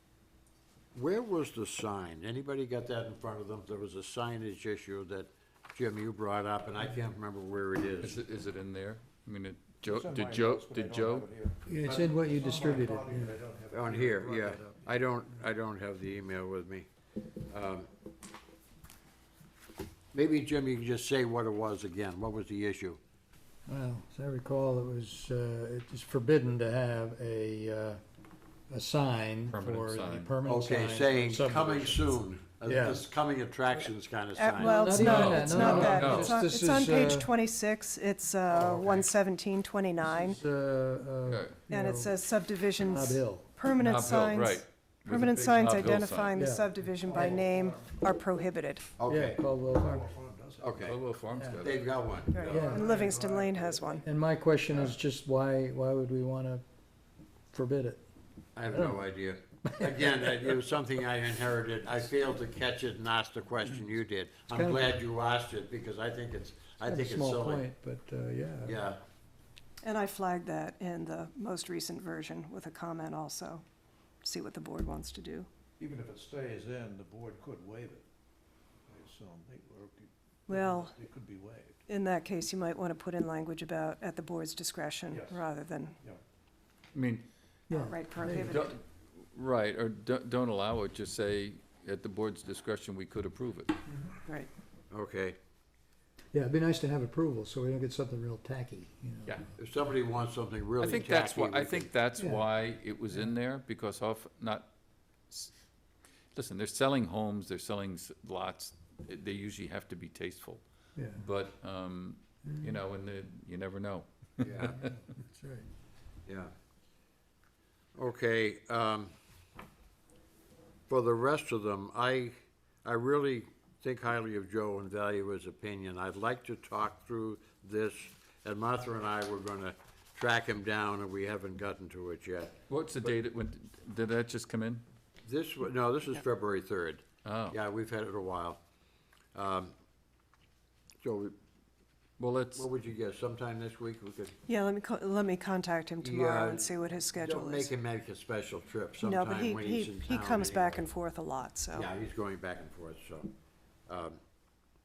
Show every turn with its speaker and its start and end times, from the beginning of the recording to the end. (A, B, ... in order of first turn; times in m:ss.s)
0:00.9-0:08.2 A
0:08.0-0:11.3 B
0:09.8-0:14.8 C
0:11.6-0:13.4 D
0:13.7-0:16.9 A
0:17.5-0:17.9 A
0:20.1-0:23.0 A
0:23.7-0:28.0 D
0:28.7-0:32.1 D
0:29.5-0:30.3 B
0:30.4-0:36.0 A
0:32.6-0:33.1 D
0:34.4-0:40.4 E
0:34.6-0:37.3 D
0:35.0-0:36.4 B
0:40.0-0:42.3 D
0:41.3-0:41.6 B
0:41.7-0:48.9 E
0:42.8-0:43.5 D
0:43.7-0:46.4 B
0:46.4-0:47.4 D
0:47.0-0:48.0 C
0:49.0-0:49.4 A
0:49.1-0:50.0 D
0:49.5-0:50.9 C
0:50.6-0:51.0 A
0:50.8-0:51.8 B
0:51.3-0:51.6 D
0:51.6-0:52.6 A
0:52.3-0:54.0 E
0:52.3-0:54.0 C
0:52.5-0:52.9 D
0:54.0-0:56.6 D
0:57.5-0:58.0 D
0:58.6-1:07.6 A
0:58.7-0:59.0 D
0:59.6-1:00.5 D
1:04.5-1:04.9 D
1:06.8-1:08.8 D
1:08.6-1:09.0 A
1:09.8-1:13.6 E
1:14.2-1:15.5 E
1:15.8-1:18.0 C
1:18.9-1:21.8 C
1:20.5-1:20.9 E
1:21.9-1:26.0 E
1:25.1-1:25.4 C
1:26.9-1:27.2 B
1:27.7-1:28.7 E
1:27.7-1:28.7 D
1:28.4-1:33.8 B
1:34.9-1:35.4 A
1:36.3-1:39.4 D
1:39.6-1:41.9 A
1:40.8-1:44.7 B
1:42.2-1:42.4 D
1:46.3-1:50.6 B
1:51.0-1:51.2 D
1:51.1-1:54.9 B
1:54.4-1:54.8 A
1:54.7-1:55.6 D
1:56.3-1:56.5 A
1:57.9-1:59.1 A
2:00.9-2:13.1 A
2:12.7-2:14.8 B
2:15.2-2:18.6 A
2:17.2-2:17.6 B
2:19.3-2:19.7 A
2:21.0-2:21.4 A
2:22.2-2:22.6 B
2:22.5-2:24.4 A
2:24.4-2:27.7 E
2:26.0-2:30.8 A
2:29.0-2:31.9 E
2:31.8-2:33.3 A
2:33.9-2:34.2 A